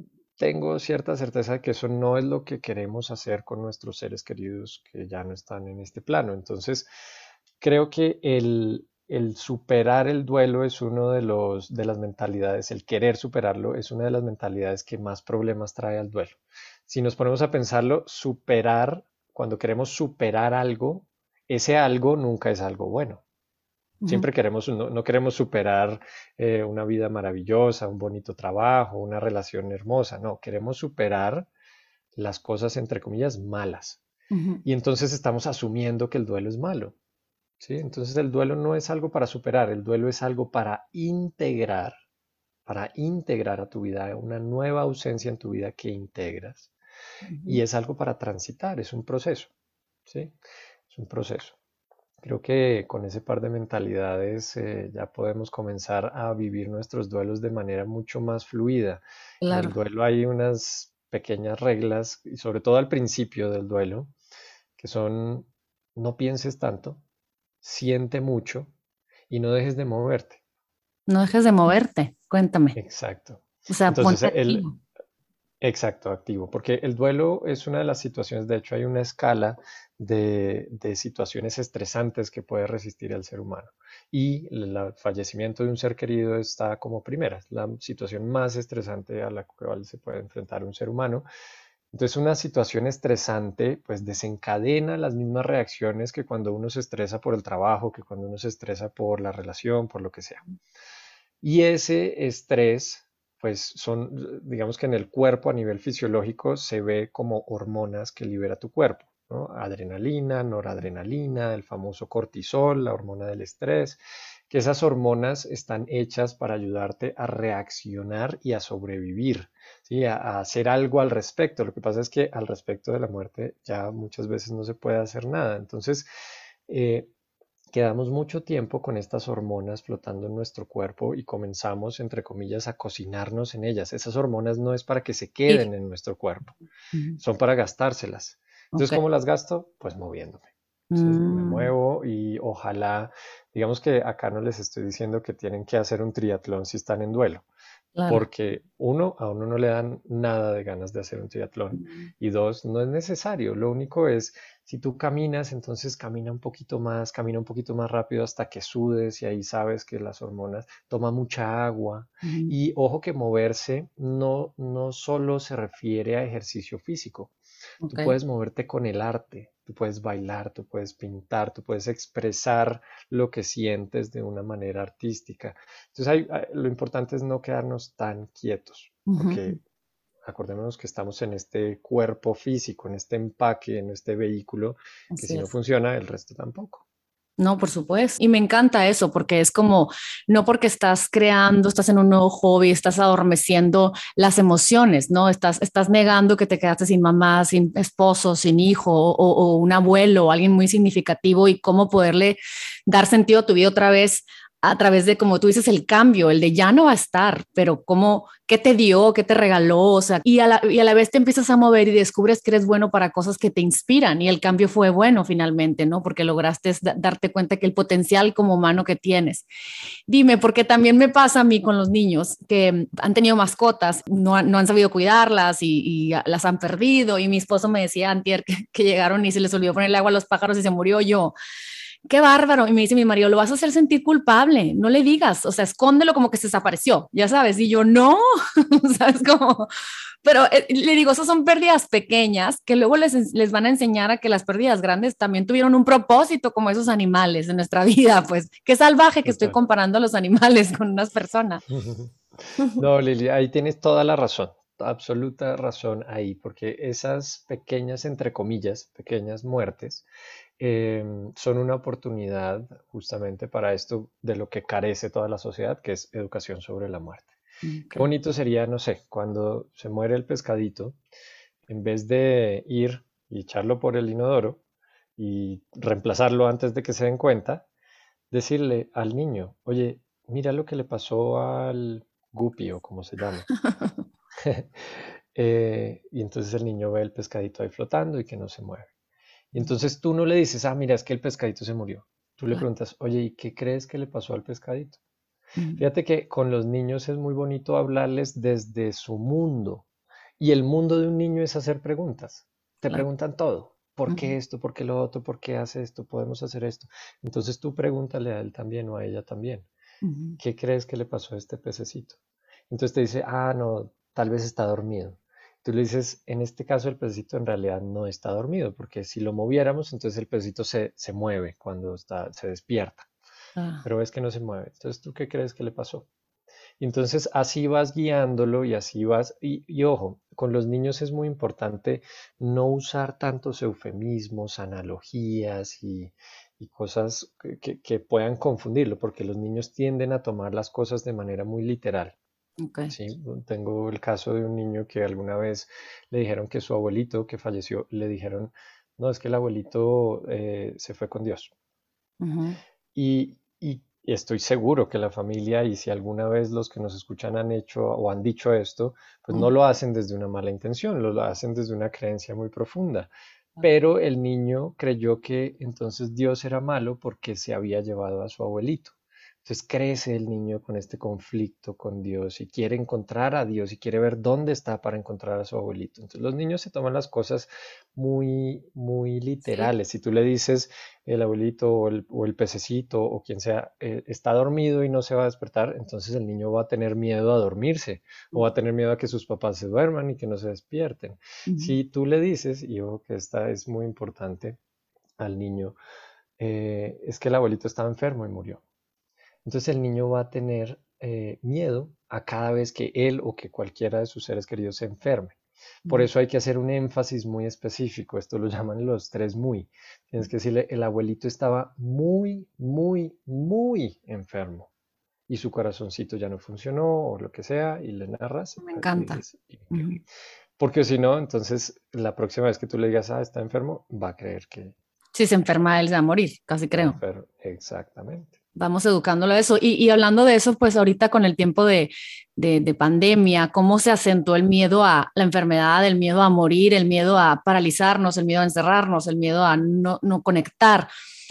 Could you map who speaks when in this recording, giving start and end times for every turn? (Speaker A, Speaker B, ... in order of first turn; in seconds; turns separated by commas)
Speaker A: 0.4-6.9, Speaker A: 7.6-23.2, Speaker B: 24.0-24.3, Speaker A: 24.1-31.5, Speaker A: 32.1-34.0, Speaker B: 34.3-34.6, Speaker A: 34.6-37.0, Speaker A: 37.6-42.0, Speaker A: 42.7-46.7, Speaker B: 47.3-47.6, Speaker A: 47.5-49.5, Speaker A: 50.1-50.3, Speaker A: 50.9-51.6, Speaker A: 52.2-64.1, Speaker B: 59.4-59.8, Speaker A: 64.8-67.0, Speaker A: 67.6-68.7, Speaker A: 69.3-70.4, Speaker B: 71.1-72.8, Speaker A: 72.8-74.7, Speaker B: 73.7-74.8, Speaker A: 75.6-91.3, Speaker A: 91.9-100.5, Speaker A: 101.4-126.1, Speaker A: 126.7-127.1, Speaker A: 127.7-136.6, Speaker B: 136.9-137.2, Speaker A: 137.2-147.5, Speaker B: 138.7-139.0, Speaker B: 140.9-141.7, Speaker B: 148.0-148.3, Speaker A: 148.1-167.3, Speaker B: 162.2-162.5, Speaker B: 167.8-168.2, Speaker A: 167.9-179.6, Speaker B: 179.1-179.6, Speaker A: 180.3-186.8, Speaker B: 185.1-185.5, Speaker B: 187.4-219.5, Speaker B: 220.1-231.3, Speaker B: 232.1-239.7, Speaker B: 240.2-251.6, Speaker A: 249.2-249.6, Speaker A: 251.7-260.1, Speaker A: 260.6-267.3, Speaker B: 267.6-268.1, Speaker A: 267.9-271.0, Speaker A: 271.7-274.6, Speaker A: 275.2-277.7, Speaker A: 278.3-283.5, Speaker B: 283.6-283.9, Speaker A: 284.4-288.9, Speaker A: 289.5-295.0, Speaker B: 295.6-295.8, Speaker A: 295.8-299.9, Speaker A: 300.4-309.7, Speaker B: 310.0-310.4, Speaker A: 310.4-312.2, Speaker A: 312.7-323.1, Speaker B: 323.6-323.9, Speaker A: 323.8-326.1, Speaker A: 326.8-342.2, Speaker B: 342.6-342.9, Speaker A: 342.9-351.5, Speaker B: 352.2-352.6, Speaker A: 352.9-394.6, Speaker B: 379.4-379.7, Speaker B: 391.5-391.8, Speaker A: 395.2-395.8, Speaker A: 396.4-398.6, Speaker A: 399.4-405.4, Speaker A: 405.9-414.7, Speaker A: 415.3-420.0, Speaker B: 418.6-420.0, Speaker A: 420.6-424.7, Speaker B: 425.1-427.0, Speaker A: 426.7-428.4, Speaker B: 428.6-440.9